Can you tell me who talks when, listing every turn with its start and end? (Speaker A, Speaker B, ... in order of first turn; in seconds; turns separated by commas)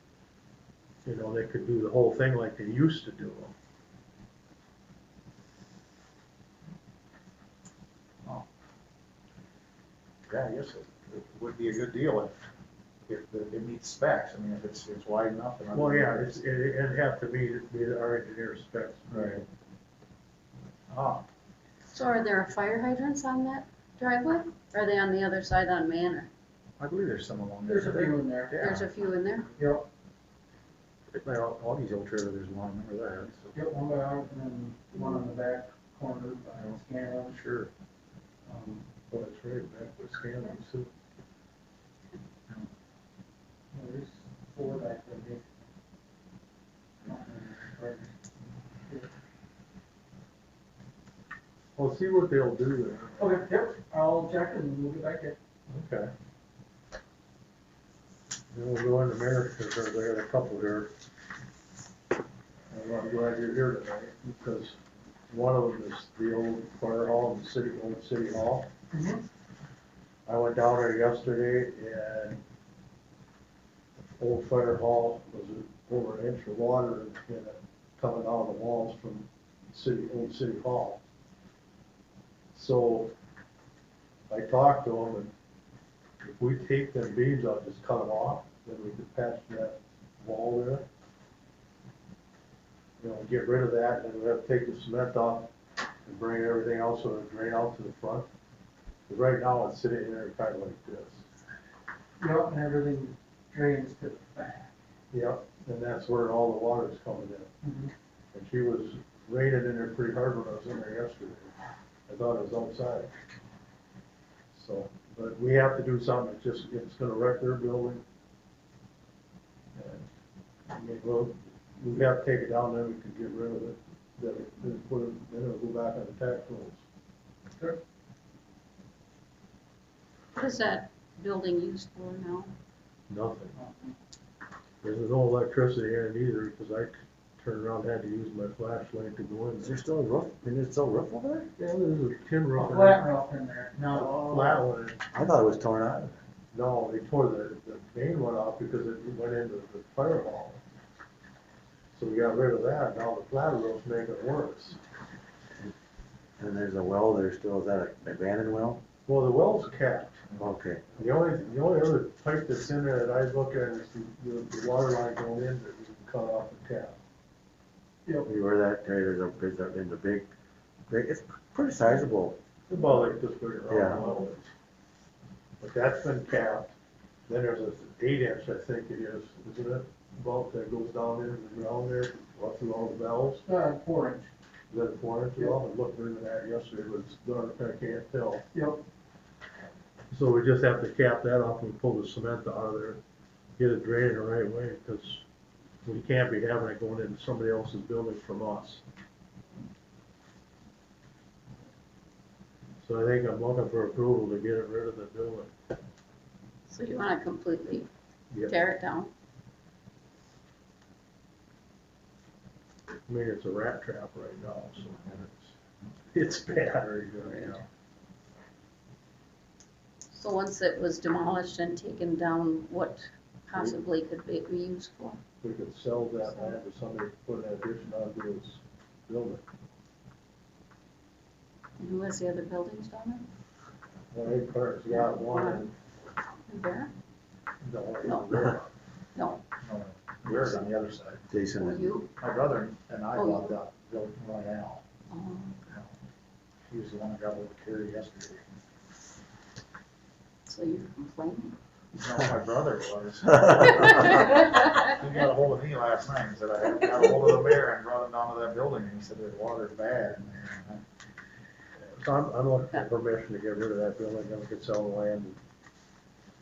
Speaker A: 1.1-3.5, Speaker B: 10.3-12.5, Speaker B: 13.1-16.3, Speaker A: 15.7-19.5, Speaker B: 19.1-19.4, Speaker B: 20.9-21.2, Speaker C: 21.9-26.3, Speaker B: 26.8-28.9, Speaker D: 27.7-28.6, Speaker C: 28.6-29.5, Speaker D: 29.6-29.9, Speaker B: 31.1-33.5, Speaker D: 33.5-37.5, Speaker B: 37.3-37.7, Speaker D: 38.5-38.9, Speaker A: 39.1-40.9, Speaker D: 43.7-45.7, Speaker D: 47.0-48.1, Speaker A: 51.8-53.4, Speaker D: 53.2-55.4, Speaker A: 55.7-56.1, Speaker A: 58.5-60.9, Speaker A: 62.7-64.8, Speaker A: 65.3-68.7, Speaker D: 68.9-69.2, Speaker A: 70.3-72.4, Speaker A: 74.2-81.0, Speaker A: 82.5-83.1, Speaker A: 84.3-85.3, Speaker A: 86.2-90.9, Speaker A: 93.0-95.5, Speaker A: 96.0-98.3, Speaker A: 99.1-101.2, Speaker D: 102.2-104.7, Speaker A: 105.1-107.5, Speaker D: 107.6-107.9, Speaker A: 108.3-111.5, Speaker A: 112.1-113.1, Speaker A: 114.5-118.0, Speaker A: 119.8-120.1, Speaker A: 120.7-126.8, Speaker C: 130.3-132.5, Speaker A: 133.1-133.5, Speaker D: 133.5-133.9, Speaker A: 134.8-139.8, Speaker E: 139.6-141.5, Speaker A: 141.6-143.1, Speaker D: 142.5-143.8, Speaker B: 143.8-144.7, Speaker A: 143.9-145.1, Speaker E: 145.1-146.2, Speaker A: 146.5-150.6, Speaker A: 151.9-154.8, Speaker E: 156.4-158.8, Speaker A: 159.1-160.3, Speaker E: 160.4-160.9, Speaker A: 161.0-167.0, Speaker E: 168.3-170.3, Speaker E: 170.9-172.4, Speaker A: 172.7-174.5, Speaker E: 173.7-174.1, Speaker A: 175.6-176.7, Speaker A: 177.3-183.4, Speaker D: 183.4-184.3, Speaker A: 184.7-188.5, Speaker D: 188.5-188.8, Speaker A: 190.1-193.0, Speaker A: 193.6-195.2, Speaker A: 195.8-198.8, Speaker A: 202.8-205.5, Speaker C: 206.7-207.9, Speaker C: 208.5-209.1, Speaker A: 213.1-215.5, Speaker A: 216.1-217.6, Speaker C: 217.2-217.6, Speaker C: 220.1-225.2, Speaker A: 225.4-229.4, Speaker C: 226.2-226.5, Speaker C: 231.8-233.3, Speaker A: 234.1-235.7, Speaker C: 234.9-235.7, Speaker C: 236.5-236.9, Speaker A: 237.6-238.7, Speaker C: 238.0-238.4, Speaker C: 239.2-239.4, Speaker B: 239.6-241.2, Speaker E: 240.3-240.6, Speaker E: 241.3-241.9, Speaker C: 241.6-242.2, Speaker B: 242.2-244.8, Speaker C: 243.1-243.5, Speaker C: 245.1-245.6, Speaker B: 246.7-248.4, Speaker C: 250.5-251.6, Speaker B: 251.9-260.8, Speaker C: 253.8-254.8, Speaker A: 262.0-265.4